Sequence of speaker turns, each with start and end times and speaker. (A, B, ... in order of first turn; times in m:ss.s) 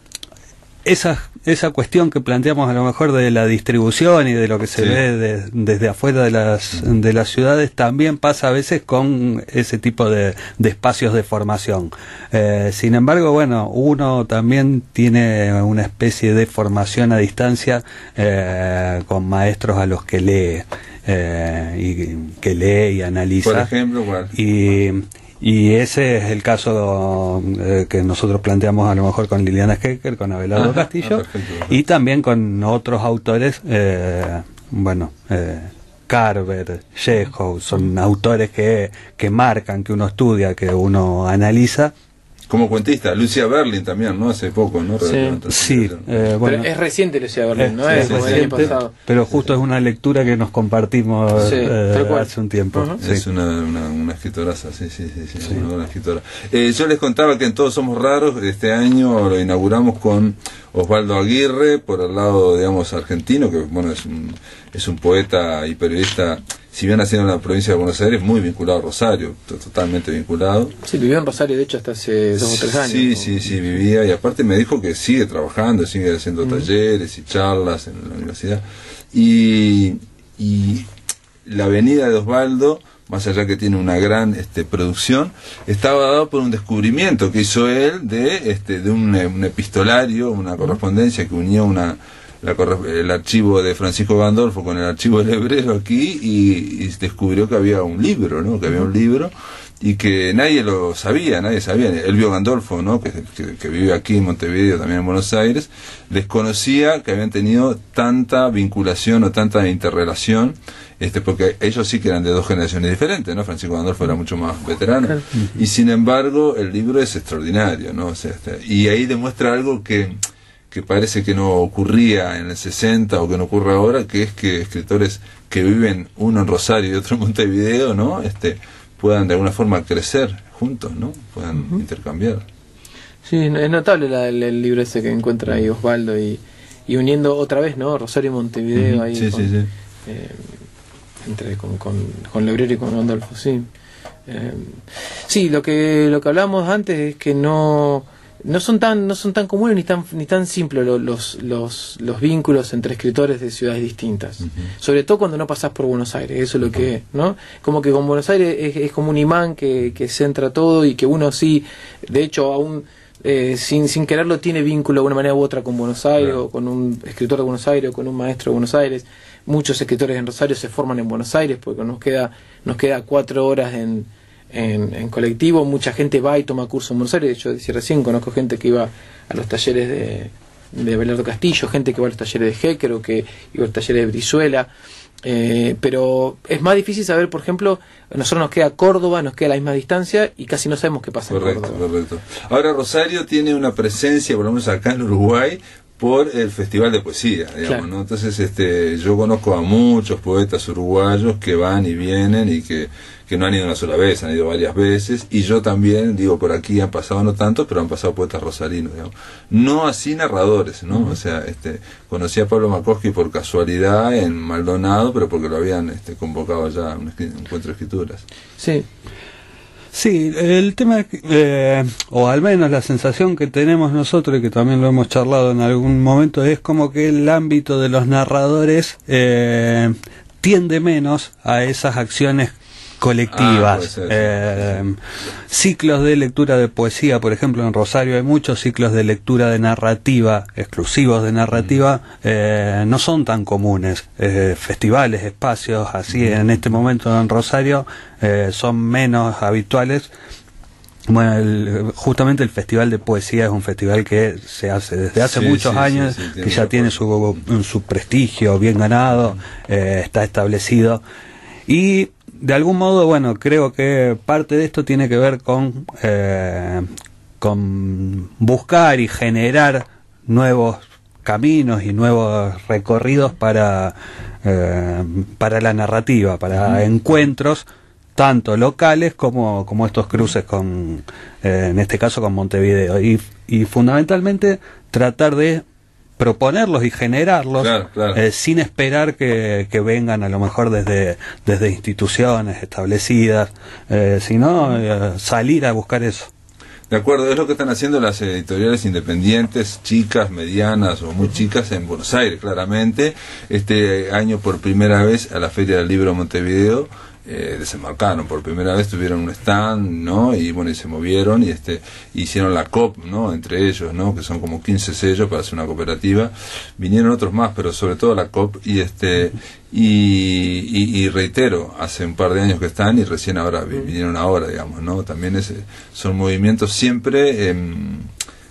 0:00.8-0:23.7 A
0:23.4-0:24.3 B
0:24.3-0:41.9 A
0:30.5-0:31.8 B
0:42.5-0:46.2 B
0:45.0-0:45.4 C
0:45.5-0:46.7 A
0:46.4-0:48.9 C
0:47.6-0:53.2 A
0:48.0-0:48.7 B
0:51.4-0:53.0 C
0:53.0-1:10.7 B
1:10.8-1:13.4 C
1:12.4-1:20.9 B
1:21.4-2:00.2 B
2:00.7-2:12.4 B
2:13.2-2:19.5 C
2:18.7-2:19.7 B
2:20.0-2:20.5 C
2:21.2-2:23.7 C
2:24.3-3:04.7 C
3:05.2-3:11.8 C
3:11.3-3:38.2 B
3:38.6-3:38.8 C
3:39.9-3:55.0 A
3:53.3-3:54.8 B
3:55.5-4:10.1 A
4:11.1-4:21.0 A
4:15.2-4:17.0 B
4:21.7-4:26.9 A
4:27.4-4:45.6 A
4:46.2-4:56.3 A
4:47.6-4:48.2 B
4:56.9-5:28.1 B